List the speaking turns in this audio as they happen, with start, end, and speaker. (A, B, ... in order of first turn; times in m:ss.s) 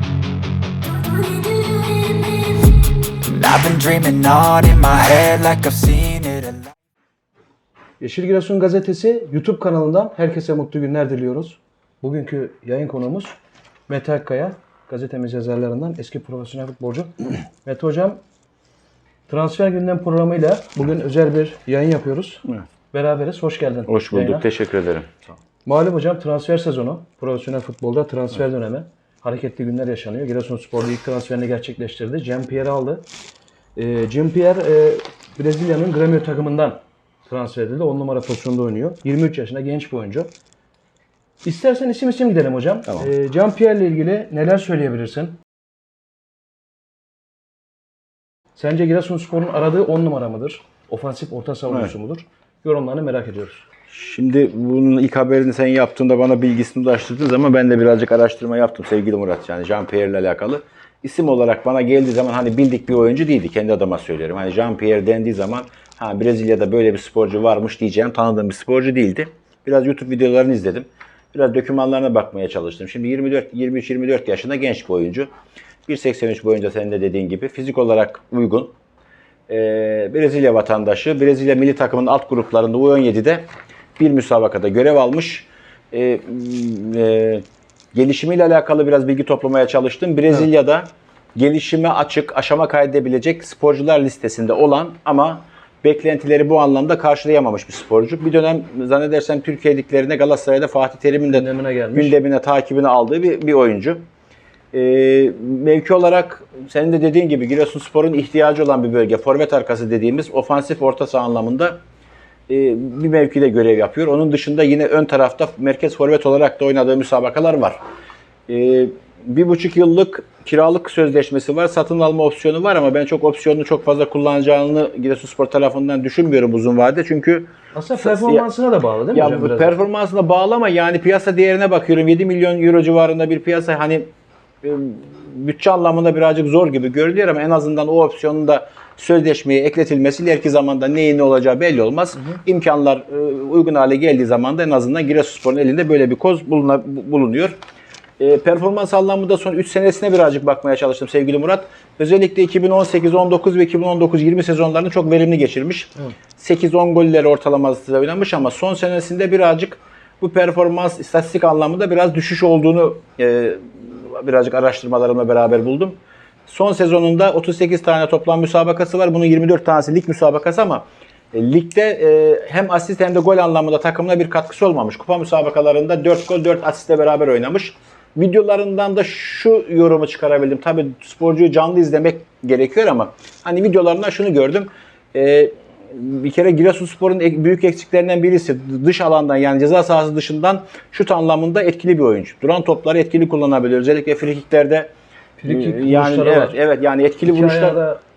0:01.0-0:06.7 A
0:08.0-0:13.3 B
0:13.9-0:18.2 B
0:19.3-0:24.4 B
0:23.9-0:25.2 C
0:25.6-0:33.0 B
0:33.8-0:40.3 B
0:41.4-0:45.4 B
0:48.6-0:53.6 B
0:51.7-0:51.9 C
0:53.9-1:15.3 C
1:15.9-1:18.7 C
1:19.5-1:23.5 C
1:24.0-1:44.0 C
1:41.3-1:42.2 B
1:44.7-1:51.8 C
1:52.5-1:57.8 C
1:58.5-2:08.4 C
2:07.7-2:09.7 B
2:09.1-2:14.1 C
2:14.6-2:27.6 C
2:28.2-3:14.9 C
3:15.4-3:16.6 B
3:15.5-3:17.8 C
3:17.2-3:18.0 B